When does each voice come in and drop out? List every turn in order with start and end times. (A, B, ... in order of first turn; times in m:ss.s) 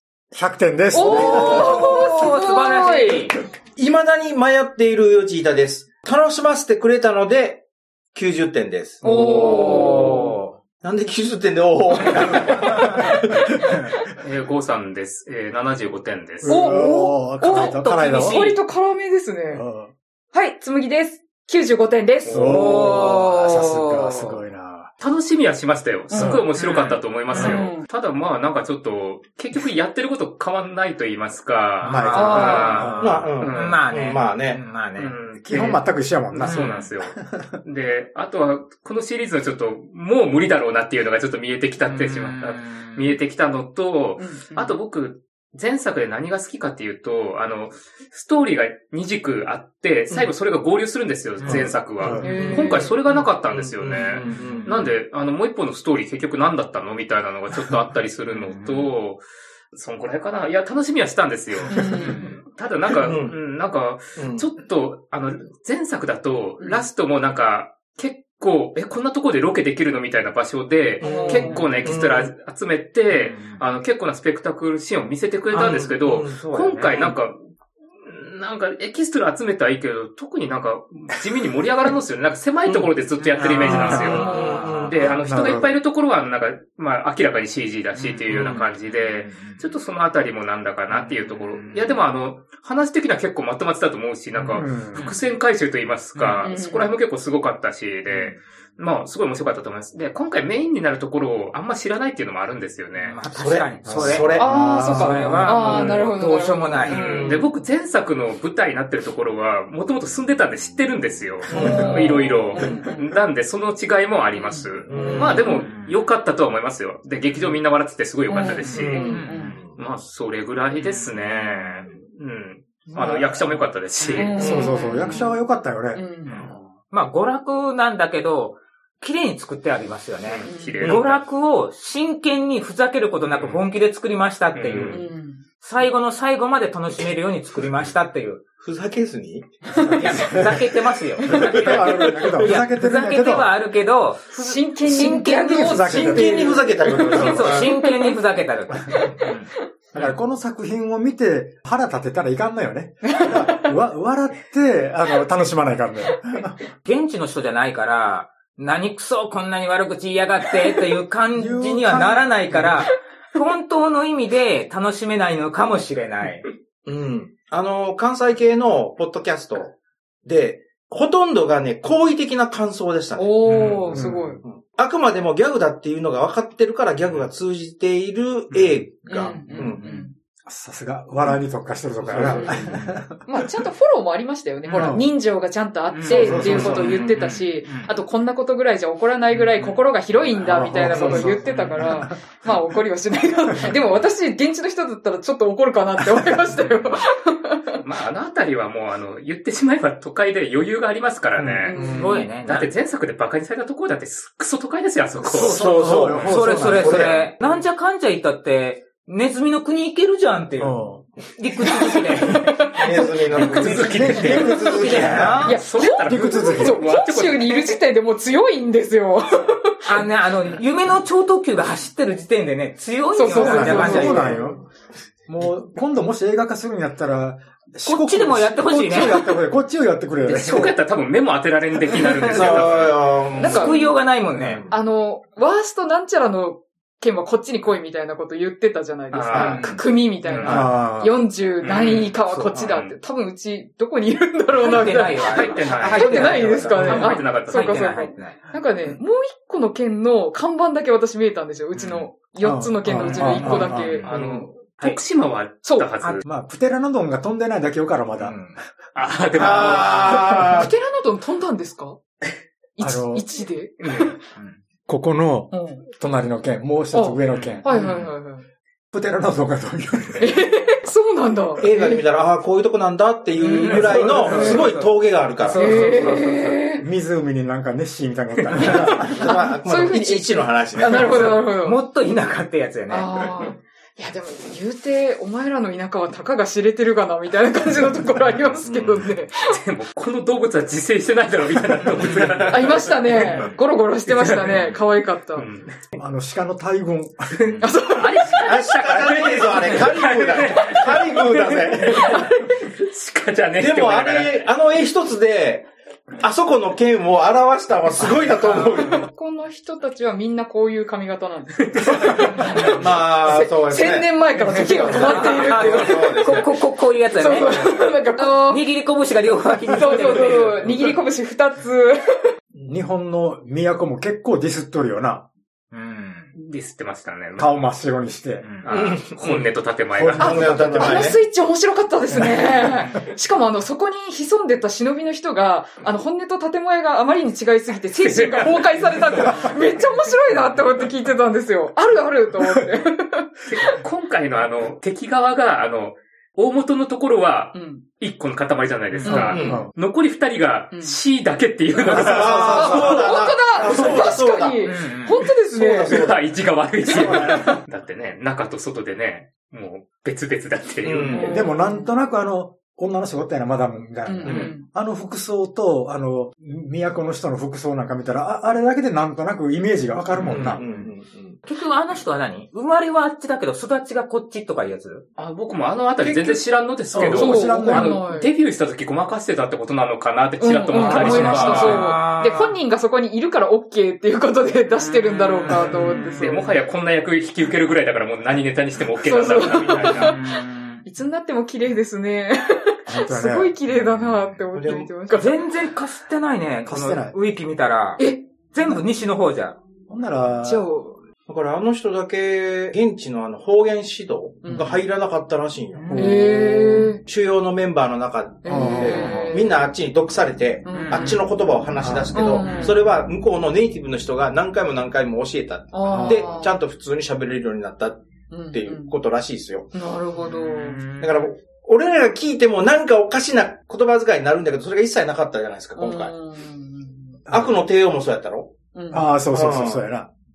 0:00.3-0:01.9 A
0:00.9-0:03.3 B
0:01.0-0:03.4 C
0:03.8-0:13.5 D
0:09.0-0:10.3 B
0:09.0-0:09.5 A
0:09.3-0:10.4 C
0:13.5-0:13.9 B
0:14.2-0:16.6 E
0:16.4-0:18.5 A
0:16.4-0:19.6 B
0:16.5-0:18.6 C
0:19.5-0:19.9 A
0:20.3-0:23.2 B
0:22.2-0:22.7 E
0:22.3-0:24.9 A
0:22.4-0:24.4 C
0:25.0-0:33.8 E
0:26.1-0:26.5 B
0:26.5-0:27.7 C
0:27.3-0:27.9 B
0:31.8-0:35.1 C
0:31.9-0:33.3 A
0:32.1-0:32.9 B
0:33.0-0:34.6 D
0:35.0-1:17.4 E
0:35.4-0:37.6 A
0:36.4-0:36.9 C
0:41.8-0:43.2 C
0:44.2-0:44.8 B
0:51.4-0:52.4 A
0:52.2-0:53.3 B
0:52.2-0:52.7 C
0:53.5-0:54.8 D
0:54.3-0:54.7 C
0:58.3-0:58.9 C
1:01.7-1:02.3 B
1:01.7-1:02.4 C
1:02.9-1:03.4 D
1:04.2-1:04.5 D
1:11.0-1:11.9 B
1:11.0-1:12.3 D
1:11.3-1:11.8 C
1:13.1-1:13.6 C
1:15.5-1:17.1 C
1:15.6-1:16.4 D
1:18.0-1:43.2 E
1:22.7-1:22.9 D
1:23.2-1:25.2 C
1:23.4-1:24.3 A
1:23.9-1:25.0 D
1:24.0-1:24.6 B
1:25.2-1:25.8 A
1:28.0-1:29.6 C
1:30.9-1:32.0 C
1:34.4-1:35.2 C
1:34.5-1:35.2 A
1:36.2-1:36.5 C
1:36.4-1:37.0 B
1:38.1-1:38.4 C
1:43.0-1:47.0 C
1:43.3-1:44.5 D
1:43.8-1:46.0 A
1:44.3-1:47.5 B
1:46.9-1:59.1 E
1:47.0-1:47.4 D
1:51.5-1:53.1 B
1:51.5-1:52.8 D
1:54.4-1:54.7 B
1:54.9-1:55.4 D
1:55.0-1:56.0 C
1:58.3-1:59.6 B
1:58.4-1:59.6 C
1:58.6-1:59.8 D
1:59.8-2:04.5 E
2:00.8-2:01.9 C
2:02.9-2:03.4 B
2:04.0-2:04.4 C
2:04.1-2:05.4 B
2:04.4-2:06.5 A
2:04.4-2:04.7 D
2:05.9-2:06.5 B
2:06.3-2:15.0 C
2:10.2-2:11.2 E
2:10.4-2:10.9 B
2:13.3-2:13.6 E
2:14.5-2:15.1 E
2:14.9-2:15.4 B
2:15.6-2:18.4 C
2:18.6-2:19.6 D
2:19.7-2:20.3 B
2:19.8-2:20.7 A
2:20.0-2:29.5 C
2:21.2-2:23.5 A
2:21.3-2:22.3 B
2:21.4-2:21.8 D
2:24.3-2:28.2 B
2:25.0-2:26.6 A
2:25.9-2:27.7 D
2:27.1-2:27.6 A
2:28.9-2:29.6 B
2:29.9-2:36.6 A
2:33.1-2:33.6 B
2:36.8-2:46.5 C
2:41.4-2:42.8 A
2:46.9-2:49.7 D
2:50.2-2:53.3 D
2:53.2-2:54.4 B
2:53.4-2:54.0 E
2:53.9-2:54.4 A
2:54.4-2:59.9 D
2:58.5-2:58.9 E
2:59.0-3:00.1 B
2:59.5-3:00.1 C
3:00.5-3:03.4 A
3:02.0-3:03.0 D
3:02.2-3:02.7 B
3:03.3-3:17.8 B
3:04.7-3:05.1 A
3:05.9-3:07.9 C
3:06.0-3:07.0 A
3:06.2-3:07.0 D
3:10.4-3:12.3 A
3:10.9-3:11.3 D
3:11.4-3:11.8 C
3:17.8-3:26.4 E
3:21.4-3:21.7 A
3:21.7-3:22.3 B
3:21.8-3:22.7 C
3:21.8-3:22.2 D
3:25.2-3:27.3 A
3:25.3-3:27.6 D
3:26.2-3:32.7 C
3:30.6-3:31.0 A
3:31.6-3:33.1 B
3:32.8-3:35.5 D
3:33.4-3:35.6 C
3:33.4-3:36.9 A
3:33.4-3:37.8 E
3:33.8-3:40.1 B
3:39.9-3:44.4 C
3:43.1-3:44.5 B
3:43.3-3:44.6 A
3:45.3-3:50.7 A
3:47.8-3:49.2 C
3:50.2-3:53.3 E
3:50.3-3:50.8 C
3:51.9-3:52.7 C
3:52.3-3:54.8 D
3:53.4-3:54.0 B
3:53.4-3:54.7 C
3:54.7-4:14.2 B
3:59.1-4:00.6 E
3:59.4-3:59.8 C
4:00.4-4:01.2 A
4:00.4-4:00.7 D
4:01.6-4:03.0 E
4:02.3-4:02.6 C
4:04.5-4:08.4 C
4:05.3-4:08.0 E
4:11.7-4:12.1 C
4:12.4-4:14.0 A
4:13.0-4:14.2 C
4:14.0-4:16.2 E
4:14.2-4:14.5 D
4:15.6-4:15.9 B
4:16.0-4:16.2 C
4:16.2-4:18.4 A
4:18.2-4:18.6 C
4:19.0-4:20.4 E
4:19.4-4:20.7 D
4:20.4-4:22.0 B
4:22.8-4:24.2 B
4:22.8-4:23.3 A
4:23.8-4:24.2 E
4:24.4-4:24.6 C
4:24.9-4:27.7 A
4:25.5-4:25.9 B
4:26.9-4:28.4 B
4:27.3-4:28.1 C
4:28.9-4:30.3 A
4:30.2-4:32.0 B
4:31.6-4:35.7 D
4:33.4-4:36.2 C
4:33.7-4:34.6 A
4:33.7-4:34.7 B
4:35.5-4:36.8 B
4:35.7-4:36.6 E
4:36.8-4:39.5 A
4:38.6-4:41.8 B
4:39.2-4:41.4 D
4:41.0-4:43.1 C
4:42.9-4:49.6 B
4:48.6-4:49.1 D
4:49.5-4:53.4 E
4:52.0-4:52.5 C
4:52.4-4:55.5 B
4:54.2-4:54.7 E
4:55.4-4:55.7 E
4:55.9-4:57.6 A
4:57.4-5:04.5 E
4:57.6-4:58.6 B
4:58.4-5:02.1 D
5:01.8-5:02.7 B
5:03.6-5:09.1 D
5:08.4-5:08.7 C
5:08.6-5:18.8 B
5:11.6-5:12.7 E
5:12.2-5:12.7 C
5:12.8-5:16.6 D
5:14.5-5:20.8 C
5:19.6-5:22.3 B
5:22.6-5:25.3 A
5:25.7-5:26.3 C
5:26.3-5:27.6 E
5:27.4-5:28.5 A
5:28.4-5:28.7 C
5:28.6-5:30.6 E
5:28.7-5:29.4 D
5:29.9-5:31.2 A
5:30.2-5:43.8 B
5:30.2-5:31.2 D
5:32.1-5:32.5 A
5:32.7-5:33.0 C
5:38.0-5:39.6 E
5:43.5-5:52.9 E
5:47.5-5:47.8 B
5:48.9-5:49.5 C
5:49.0-5:49.5 B
5:49.2-5:49.6 D
5:49.4-5:49.7 A
5:50.7-5:51.0 B
5:51.8-5:56.2 B
5:51.9-5:53.0 A
5:52.0-5:54.8 D
5:54.6-5:55.2 C
5:55.4-5:56.2 D
5:55.9-6:01.5 E
5:56.9-5:57.6 B
5:56.9-5:57.6 A
6:00.8-6:01.3 D
6:01.0-6:01.9 B
6:01.2-6:10.6 A
6:04.0-6:04.7 B
6:04.2-6:04.5 D
6:10.1-6:10.9 C
6:10.3-6:11.4 D
6:11.4-6:15.0 C
6:15.2-6:21.8 E
6:16.0-6:16.4 D
6:16.9-6:18.0 A
6:17.0-6:18.3 B
6:20.4-6:26.6 B
6:20.8-6:21.8 D
6:20.8-6:22.6 C
6:20.9-6:21.7 A
6:24.8-6:26.3 C
6:25.5-6:25.8 A
6:25.5-6:30.2 E
6:29.0-6:35.4 B
6:29.7-6:30.8 C
6:32.9-6:33.6 A
6:34.5-6:34.9 D
6:35.1-6:39.6 C
6:36.7-6:37.2 A
6:38.0-6:38.8 B
6:39.9-6:40.7 A
6:40.4-6:41.0 B
6:41.3-6:46.0 D
6:44.4-6:44.9 B
6:45.8-6:46.2 C
6:45.9-6:46.9 A
6:45.9-6:47.0 B
6:47.0-6:59.7 D
6:48.4-6:49.6 B
6:48.5-6:49.3 A
6:50.6-6:51.2 B
6:50.7-6:51.2 C
6:51.8-6:52.2 A
6:52.1-6:52.9 B
6:55.7-6:56.6 B
6:55.9-6:56.3 A
6:58.3-6:58.9 B
6:59.7-7:00.9 B
7:00.2-7:01.3 C
7:01.0-7:06.1 D
7:05.8-7:07.2 B
7:07.3-7:07.7 A
7:07.3-7:08.6 D
7:08.7-7:09.2 B
7:08.9-7:10.1 A
7:09.3-7:09.8 D